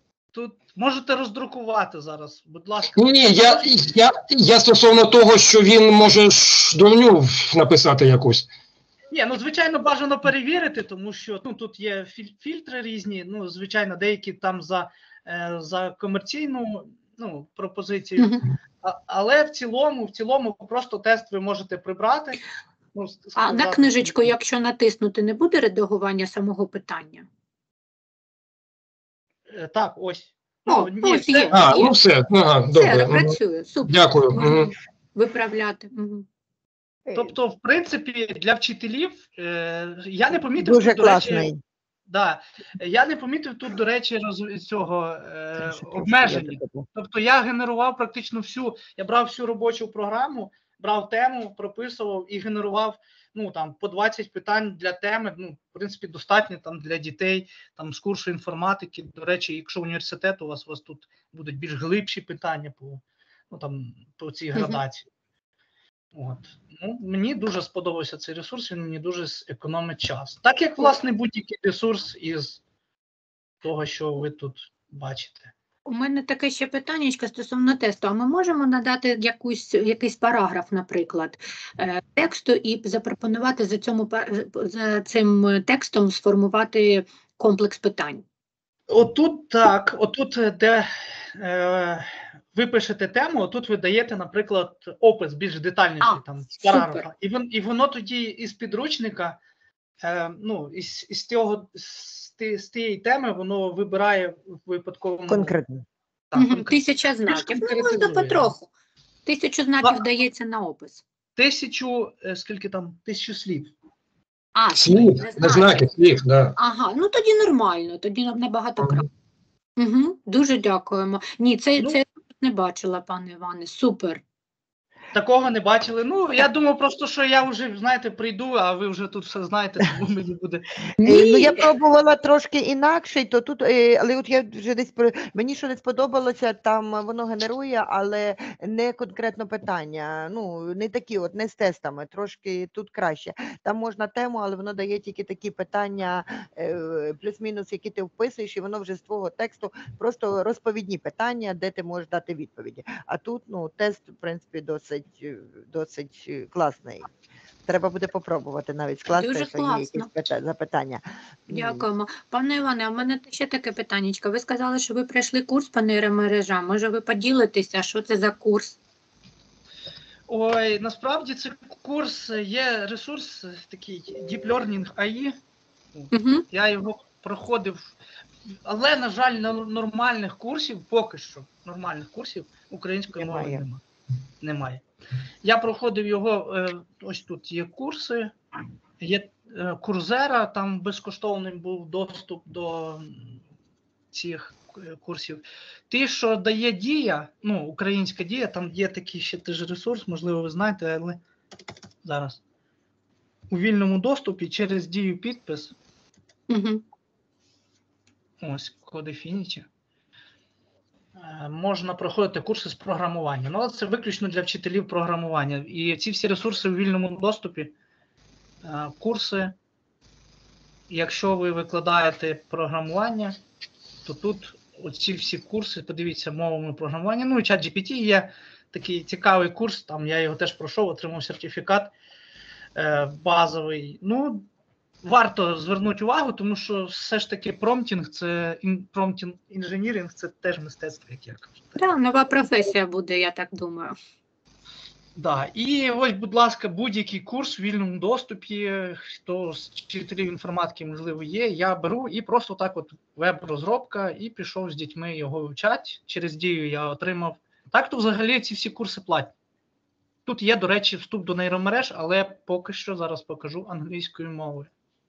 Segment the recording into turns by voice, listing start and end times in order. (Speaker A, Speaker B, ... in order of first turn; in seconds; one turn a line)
Speaker A: 0.3-3.7
Speaker B: 2.9-8.5
Speaker A: 9.1-22.4
Speaker C: 18.2-18.4
Speaker A: 22.9-24.3
Speaker C: 23.4-27.2
Speaker A: 29.5-31.6
Speaker C: 30.6-31.9
Speaker B: 31.5-34.7
Speaker C: 32.7-36.2
Speaker D: 37.1-37.3
Speaker A: 37.1-41.5
Speaker D: 40.6-41.6
Speaker A: 42.1-65.1
Speaker D: 45.7-46.9
Speaker C: 64.5-64.8
Speaker A: 66.1-72.6
Speaker A: 73.6-75.5
Speaker C: 75.8-88.2
Speaker A: 88.9-99.4
Speaker C: 96.0-97.1
Speaker A: 100.0-105.6
Speaker D: 105.3-105.8
Speaker A: 106.3-108.5
Speaker C: 106.3-108.7
Speaker C: 109.2-111.0
Speaker A: 111.3-113.7
Speaker C: 114.5-115.7
Speaker B: 114.7-116.5
Speaker C: 116.5-119.1
Speaker C: 119.8-124.2
Speaker A: 125.1-130.7
Speaker C: 131.0-131.6
Speaker D: 131.0-157.1
Speaker D: 157.7-161.8
Speaker C: 159.1-160.1
Speaker C: 161.5-168.8
Speaker A: 170.3-175.4
Speaker A: 175.9-177.9
Speaker C: 176.1-176.4
Speaker A: 178.6-183.8
Speaker D: 183.1-183.6
Speaker A: 184.4-184.8
Speaker A: 185.4-188.3
Speaker A: 189.0-193.4
Speaker A: 194.1-201.2
Speaker A: 202.0-202.4
Speaker A: 203.5-205.7
Speaker C: 206.5-206.8
Speaker A: 208.4-209.7
Speaker A: 211.1-217.7
Speaker A: 218.6-219.5
Speaker A: 220.9-223.4
Speaker A: 224.0-231.9
Speaker A: 232.7-234.5
Speaker A: 235.0-241.8
Speaker C: 241.8-243.9
Speaker A: 245.1-259.3
Speaker A: 260.2-264.7